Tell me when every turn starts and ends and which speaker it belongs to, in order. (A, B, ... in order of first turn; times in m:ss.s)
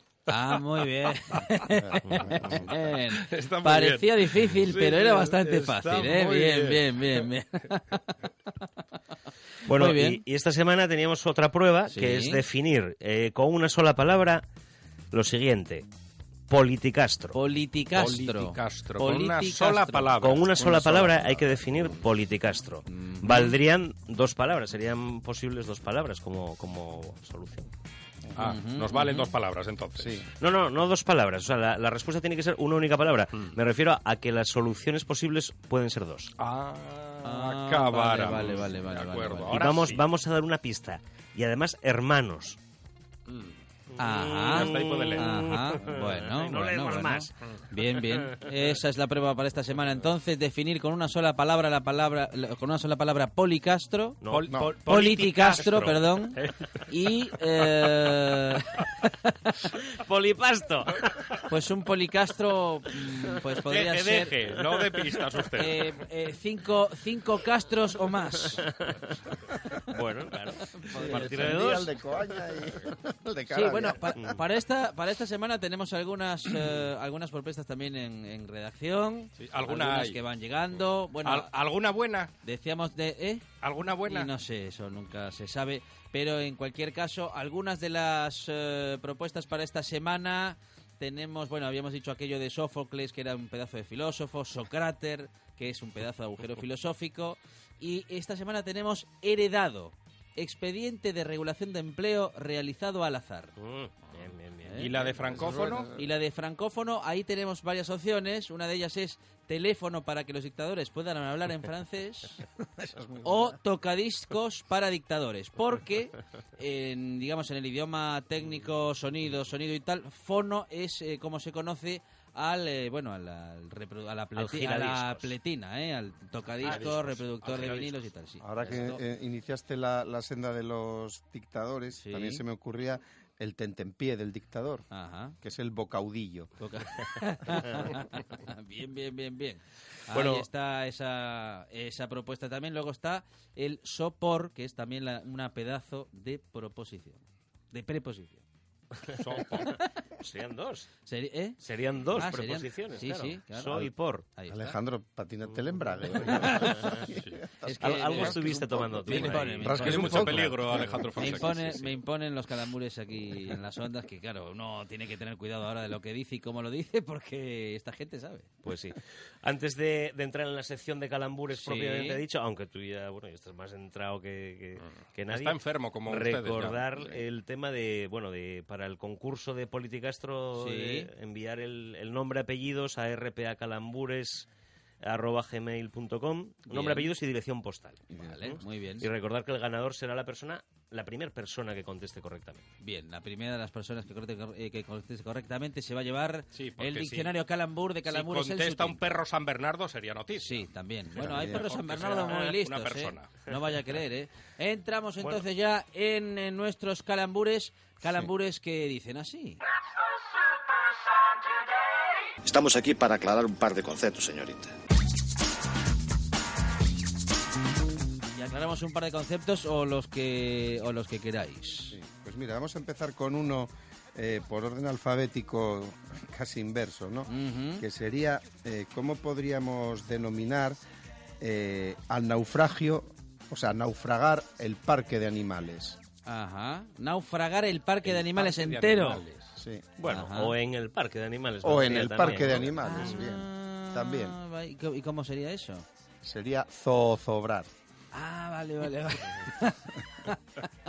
0:00.3-0:08.2 A
0:02.0-0:02.6 B
0:02.4-0:07.3 C
0:09.6-0:14.4 B
0:09.7-0:10.2 A
0:11.9-0:12.4 A
0:15.1-0:15.9 B
0:16.5-0:17.4 B
0:17.3-0:20.2 A
0:17.9-0:21.8 C
0:20.2-0:27.7 B
0:22.9-0:23.6 A
0:28.3-0:28.5 D
0:28.4-0:30.3 C
0:28.4-0:29.3 A
0:30.0-0:30.3 D
0:30.4-0:36.3 B
0:36.4-0:40.1 C
0:37.2-0:39.7 A
0:39.5-0:42.6 B
0:43.3-0:43.6 C
0:43.9-0:47.3 B
0:44.0-0:54.2 A
0:44.5-0:45.3 C
0:48.0-0:48.3 B
0:54.2-0:54.7 B
0:54.3-0:56.9 C
0:54.9-0:59.5 A
0:55.6-0:56.2 B
0:59.7-1:01.4 B
1:01.5-1:04.4 A
1:03.6-1:05.9 C
1:05.6-1:08.6 A
1:08.6-1:09.2 B
1:09.8-1:12.0 B
1:10.8-1:14.4 D
1:10.9-1:11.6 A
1:13.5-1:21.5 A
1:19.4-1:20.2 C
1:21.2-1:22.3 C
1:22.4-1:23.5 A
1:23.6-1:24.3 C
1:24.1-1:43.5 A
1:43.6-1:45.0 B
1:44.6-1:45.0 A
1:44.8-1:45.9 C
1:45.1-1:46.1 D
1:45.9-1:52.5 A
1:52.8-1:53.6 D
1:53.2-2:09.0 A
2:04.4-2:05.3 B
2:06.6-2:08.0 C
2:08.4-2:14.9 D
2:11.9-2:12.4 A
2:14.9-2:15.4 A
2:15.4-2:16.5 D
2:16.6-2:28.4 A
2:20.1-2:20.5 B
2:29.0-2:30.9 B
2:29.1-2:29.8 C
2:31.0-2:31.6 A
2:31.6-2:34.3 B
2:32.2-2:34.8 A
2:34.5-2:41.5 D
2:35.5-2:37.1 B
2:36.2-2:37.0 A
2:37.0-2:37.4 C
2:37.6-2:40.6 A
2:37.8-2:40.2 B
2:39.1-2:42.0 C
2:41.2-2:48.5 A
2:48.6-3:04.5 B
2:51.5-2:52.2 A
2:55.3-2:57.1 C
3:00.6-3:01.1 A
3:05.0-3:12.7 B
3:06.7-3:07.1 A
3:08.1-3:08.4 D
3:08.2-3:09.1 A
3:12.8-3:19.0 A
3:16.5-3:17.3 C
3:18.1-3:23.5 C
3:20.4-3:29.6 A
3:21.2-3:21.7 D
3:32.4-3:34.7 E
3:38.3-3:42.0 A
3:41.9-3:50.8 D
3:47.3-3:47.8 A
3:51.4-3:56.0 D
3:56.2-3:59.2 A
3:58.0-3:59.6 C
3:59.6-3:59.9 D
4:00.0-4:03.2 B
4:00.0-4:00.6 A
4:01.6-4:04.4 D
4:02.8-4:05.8 A
4:06.2-4:07.7 D
4:08.1-4:10.4 A